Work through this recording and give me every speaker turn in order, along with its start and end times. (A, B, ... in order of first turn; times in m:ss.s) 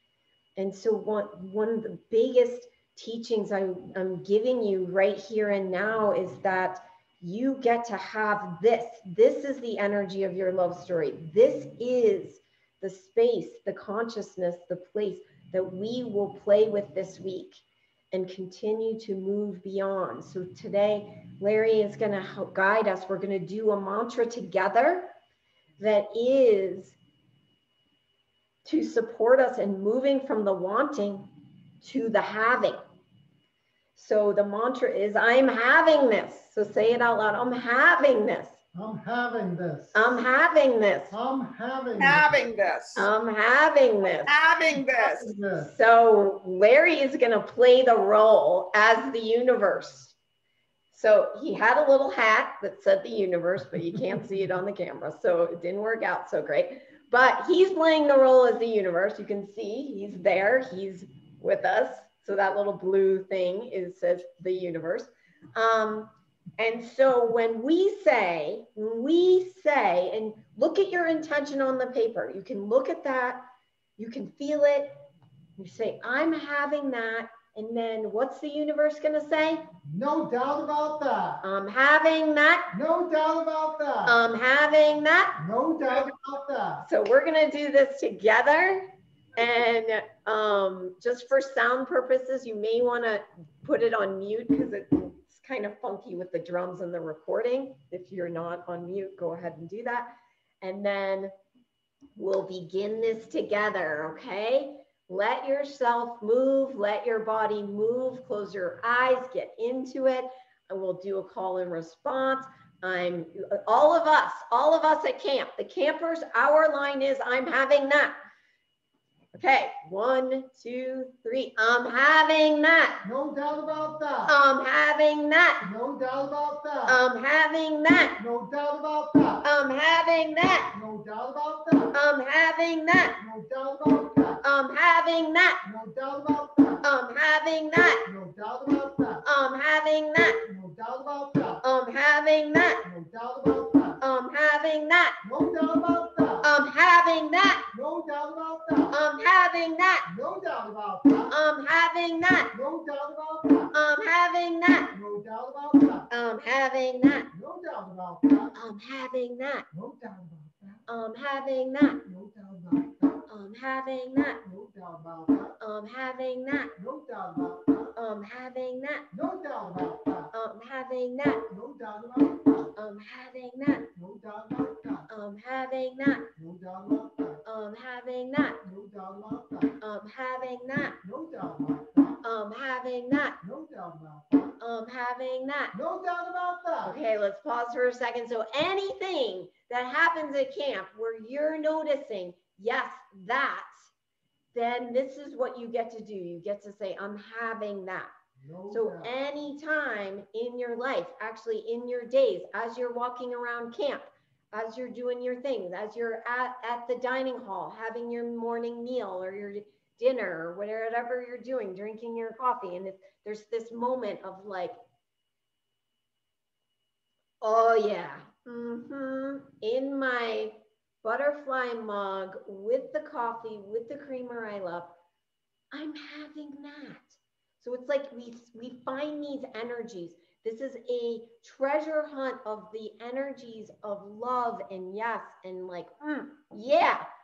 0:00.6-0:25.1 A
0:25.8-0:27.0 A
0:28.6-0:31.3 A
0:31.8-0:32.8 A
0:34.0-0:38.6 A
0:38.7-0:40.0 B
0:39.9-0:41.2 A
0:41.1-0:42.4 B
0:42.0-0:43.1 C
0:43.0-0:44.4 A
0:44.3-0:45.3 C
0:45.0-0:45.7 B
0:45.6-0:50.2 A
0:50.9-1:13.4 A
1:14.0-1:15.0 A
1:15.6-1:19.7 A
1:19.8-1:21.4 B
1:21.4-1:22.7 A
1:22.7-1:24.2 B
1:24.1-1:25.4 A
1:25.4-1:26.9 B
1:26.8-1:40.1 A
1:40.6-1:41.3 A
1:42.2-1:58.1 A
1:59.3-2:03.0 A
2:03.0-2:04.4 B
2:04.3-2:05.7 A
2:05.6-2:07.0 B
2:06.9-2:08.2 A
2:08.2-2:09.4 B
2:09.4-2:10.7 A
2:10.7-2:12.0 B
2:11.9-2:13.2 A
2:13.2-2:14.4 B
2:14.4-2:15.6 A
2:15.6-2:16.8 B
2:16.8-2:18.1 A
2:18.0-2:19.2 B
2:19.2-2:20.4 A
2:20.2-2:21.6 B
2:21.6-2:22.8 A
2:22.6-2:24.0 B
2:24.0-2:25.2 A
2:25.2-2:26.5 B
2:26.4-2:27.7 A
2:27.7-2:29.0 B
2:28.9-2:30.1 A
2:30.1-2:31.4 B
2:31.3-2:32.5 A
2:32.5-2:33.7 B
2:33.7-2:34.9 A
2:34.9-2:36.1 B
2:36.1-2:37.3 A
2:37.3-2:38.6 B
2:38.6-2:39.7 A
2:39.7-2:40.8 B
2:40.9-2:42.0 A
2:42.0-2:43.3 B
2:43.3-2:44.4 A
2:44.4-2:45.6 B
2:45.6-2:46.7 A
2:46.8-2:48.0 B
2:48.0-2:49.1 A
2:49.1-2:50.3 B
2:50.3-2:51.5 A
2:51.5-2:52.7 B
2:52.8-2:53.9 A
2:53.9-2:55.1 B
2:55.1-2:56.3 A
2:56.4-2:57.4 B
2:57.4-2:58.6 A
2:58.6-2:59.8 B
2:59.8-3:01.0 A
3:01.0-3:02.2 B
3:02.2-3:03.4 A
3:03.4-3:04.6 B
3:04.6-3:05.8 A
3:05.7-3:07.0 B
3:06.8-3:13.9 A
3:14.5-3:18.1 A
3:18.4-3:19.1 B
3:18.7-3:34.8 A
3:37.4-3:45.0 A
3:45.7-3:57.0 A